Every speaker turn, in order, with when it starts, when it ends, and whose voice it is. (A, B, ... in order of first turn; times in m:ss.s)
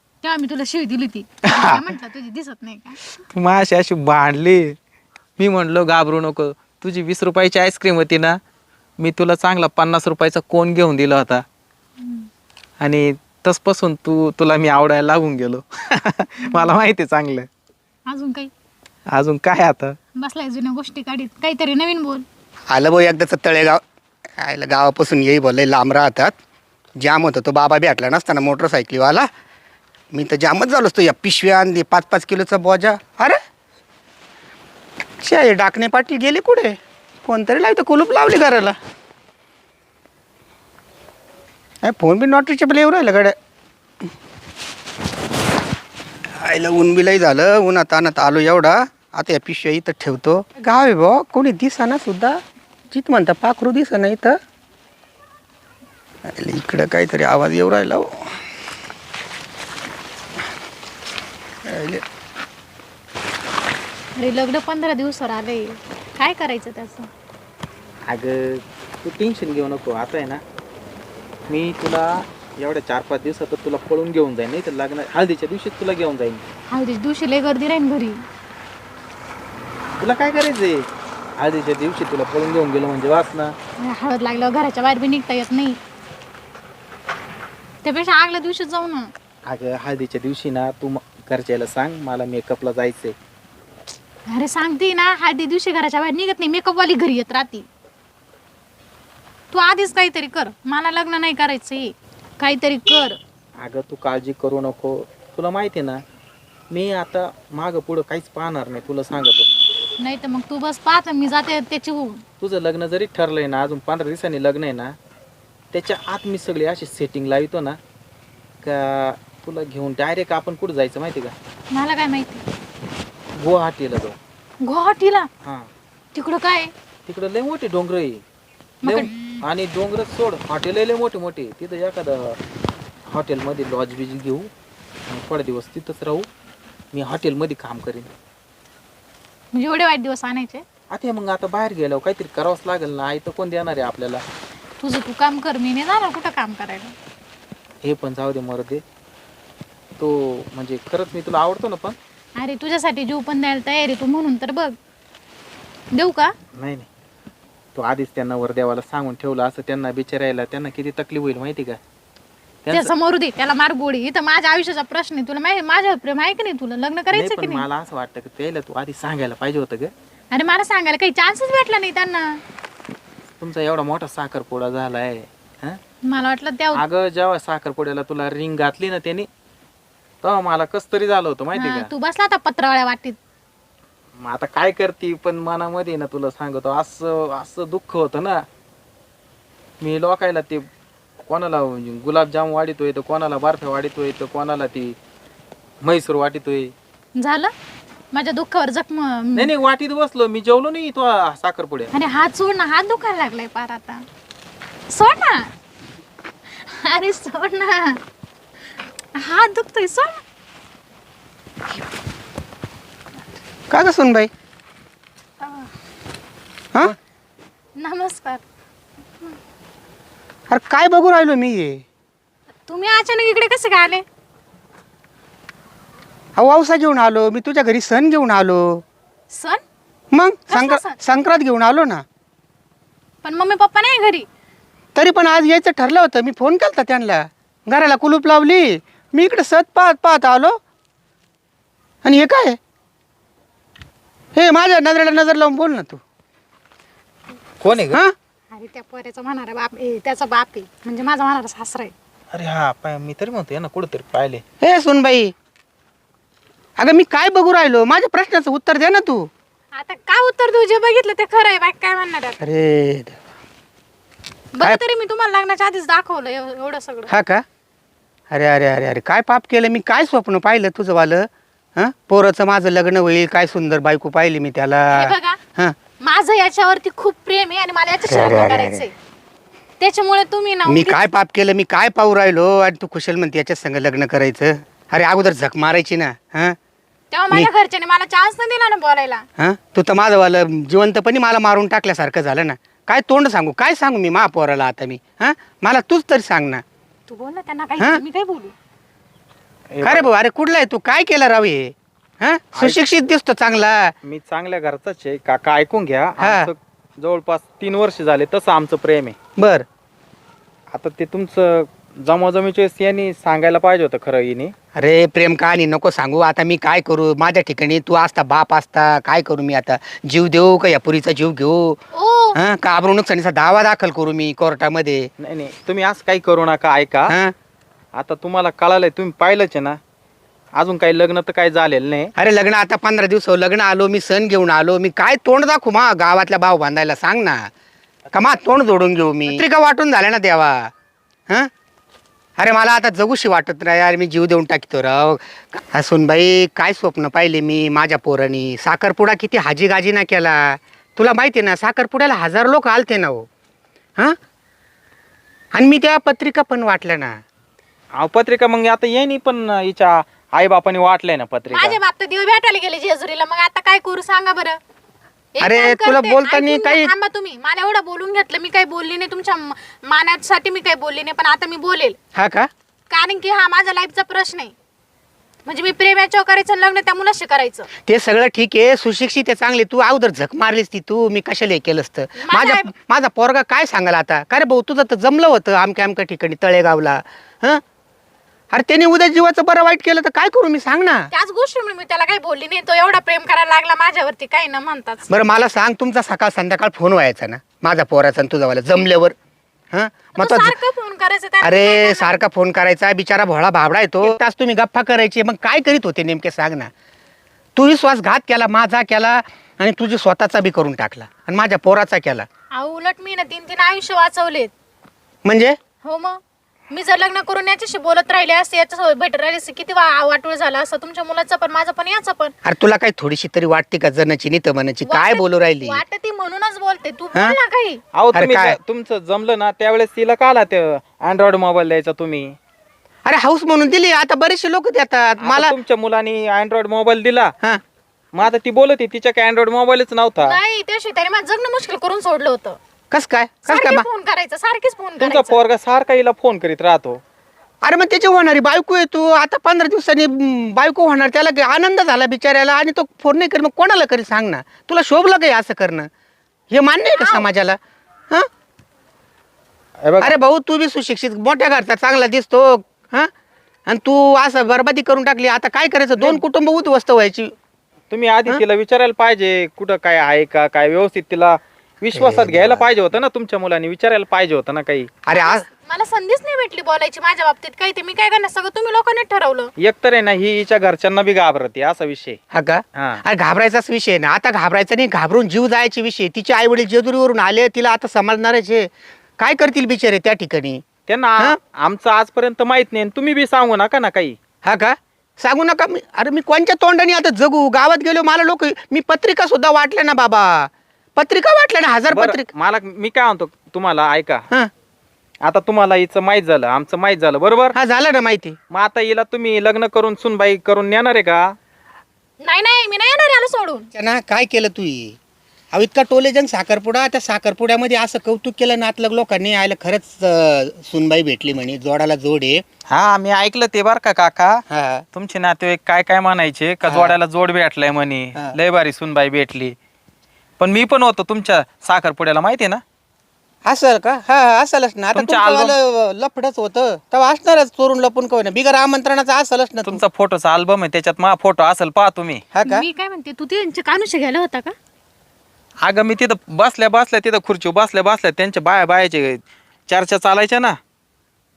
0:00.2-0:03.0 A
0:01.4-0:01.8 B
0:03.3-0:04.8 B
0:05.4-0:08.4 B
0:09.0-0:11.4 B
0:12.0-0:12.3 A
0:12.8-0:17.5 B
0:18.1-0:18.5 A
0:19.1-0:20.0 B
0:20.2-0:22.2 A
0:22.7-0:23.8 C
0:24.4-0:26.4 C
0:27.0-0:29.3 C
0:30.1-0:33.4 C
0:35.2-0:38.8 C
0:41.8-0:43.4 C
0:46.4-0:54.4 C
0:56.2-0:58.3 C
1:01.6-1:02.0 C
1:04.2-1:07.1 A
1:08.1-1:10.4 B
1:11.5-1:16.4 B
1:16.7-1:18.2 A
1:20.0-1:20.9 B
1:21.4-1:23.5 B
1:23.8-1:25.8 A
1:27.8-1:29.1 A
1:29.4-1:33.1 B
1:34.3-1:37.7 A
1:39.5-1:43.2 A
1:43.6-1:46.0 B
1:46.7-1:49.5 B
1:50.0-1:52.2 A
1:52.4-1:55.0 B
1:55.7-1:57.8 B
1:58.6-2:01.3 B
2:01.7-2:02.4 A
2:03.4-2:04.2 B
2:04.6-2:05.3 A
2:06.1-2:06.7 A
2:07.1-2:08.2 B
2:08.8-2:09.1 A
2:08.8-2:12.4 B
2:13.1-2:14.5 B
2:15.1-2:16.3 B
2:16.9-2:18.1 B
2:19.5-2:20.6 A
2:20.9-2:24.2 B
2:24.8-2:26.9 A
2:27.8-2:28.8 B
2:30.0-2:32.0 B
2:32.4-2:34.8 A
2:35.9-2:36.3 A
2:36.5-2:36.9 B
2:37.7-2:41.8 B
2:42.6-2:42.9 B
2:42.7-2:47.6 A
2:47.1-2:49.9 B
2:50.3-2:52.4 A
2:53.4-2:55.8 B
2:56.0-2:56.8 A
2:56.7-2:59.3 B
3:00.2-3:01.9 B
3:01.5-3:03.2 A
3:04.2-3:08.4 B
3:09.8-3:10.7 B
3:11.3-3:15.0 B
3:15.8-3:16.7 B
3:17.2-3:17.5 A
3:18.1-3:19.5 A
3:19.4-3:21.9 B
3:21.9-3:24.0 A
3:24.9-3:25.5 A
3:26.5-3:28.0 A
3:29.1-3:30.2 A
3:33.7-3:34.3 C
3:35.4-3:35.7 A
3:37.8-3:38.4 A
3:40.5-3:41.8 C
3:42.7-3:44.0 A
3:46.4-3:48.8 C
3:49.3-3:49.6 A
3:50.1-3:52.0 C
3:50.5-3:51.0 A
3:53.2-3:54.3 A
3:54.9-4:00.6 C
4:02.0-4:02.6 C
4:04.3-4:06.0 C
4:07.6-4:08.0 B
4:08.5-4:11.9 A
4:12.3-4:14.4 B
4:14.6-4:15.3 C
4:16.8-4:19.3 C
4:19.7-4:22.4 A
4:22.4-4:23.2 C
4:24.5-4:27.1 A
4:27.1-4:27.4 C
4:28.3-4:35.7 C
4:34.9-4:35.4 A
4:36.0-4:38.9 A
4:38.0-4:38.8 C
4:39.8-4:41.0 A
4:40.6-4:46.6 C
4:47.1-4:49.2 A
4:49.4-4:56.6 C
4:57.1-4:58.5 A
4:59.7-5:00.1 B
4:59.8-5:03.9 C
5:02.5-5:02.8 B
5:04.0-5:09.1 B
5:06.2-5:06.5 C
5:09.4-5:09.6 C
5:10.7-5:14.5 B
5:14.7-5:21.8 C
5:21.9-5:22.4 A
5:22.3-5:25.1 C
5:25.2-5:27.1 B
5:27.1-5:27.3 C
5:27.9-5:29.8 B
5:30.5-5:32.1 B
5:32.2-5:37.5 C
5:38.1-5:40.7 C
5:42.4-5:53.3 C
5:55.5-5:57.2 C
5:58.0-6:01.8 B
6:01.5-6:04.6 A
6:05.3-6:12.0 A
6:05.4-6:06.9 C
6:12.1-6:12.5 C
6:12.9-6:14.5 A
6:15.4-6:17.7 A
6:17.8-6:27.6 C
6:22.2-6:22.7 A
6:28.5-6:31.1 C
6:31.1-6:35.1 A
6:35.1-6:39.1 C
6:39.7-6:40.5 C
6:40.2-6:42.2 A
6:41.4-6:46.7 C
6:47.6-6:52.2 C
6:52.5-6:54.5 A
6:55.2-6:55.6 C
6:55.8-7:02.3 A
7:02.4-7:05.8 C
7:04.8-7:07.8 A
7:07.9-7:12.3 B
7:08.1-7:08.6 C
7:13.0-7:15.5 C
7:15.2-7:17.3 B
7:18.1-7:20.4 B
7:20.2-7:22.6 A
7:22.9-7:23.8 C
7:23.5-7:25.4 A
7:25.0-7:27.0 B
7:27.6-7:35.9 C
7:36.5-7:37.6 C
7:37.0-7:37.2 A
7:39.8-7:40.2 B
7:40.0-7:43.1 C
7:43.7-7:47.3 C
7:46.0-7:46.2 B
7:47.9-7:54.9 B
7:51.9-7:52.6 C
7:55.0-7:55.4 C
7:55.1-7:59.5 A
7:59.6-8:02.2 B
8:02.3-8:10.6 C
8:02.8-8:03.0 B
8:10.9-8:14.2 B
8:14.4-8:22.3 C
8:21.9-8:24.2 B
8:25.2-8:27.6 B
8:27.5-8:28.4 C
8:28.5-8:31.3 B
8:32.2-8:33.7 A
8:33.7-8:35.0 C
8:35.5-8:42.4 C
8:42.7-8:44.4 B
8:44.5-8:44.8 C
8:44.9-8:49.5 B
8:46.7-8:46.9 C
8:50.4-8:52.6 B
8:53.4-8:59.8 C
8:54.9-8:55.5 B
8:59.6-9:02.2 B
9:02.3-9:02.7 C
9:02.4-9:04.5 A
9:05.6-9:10.6 B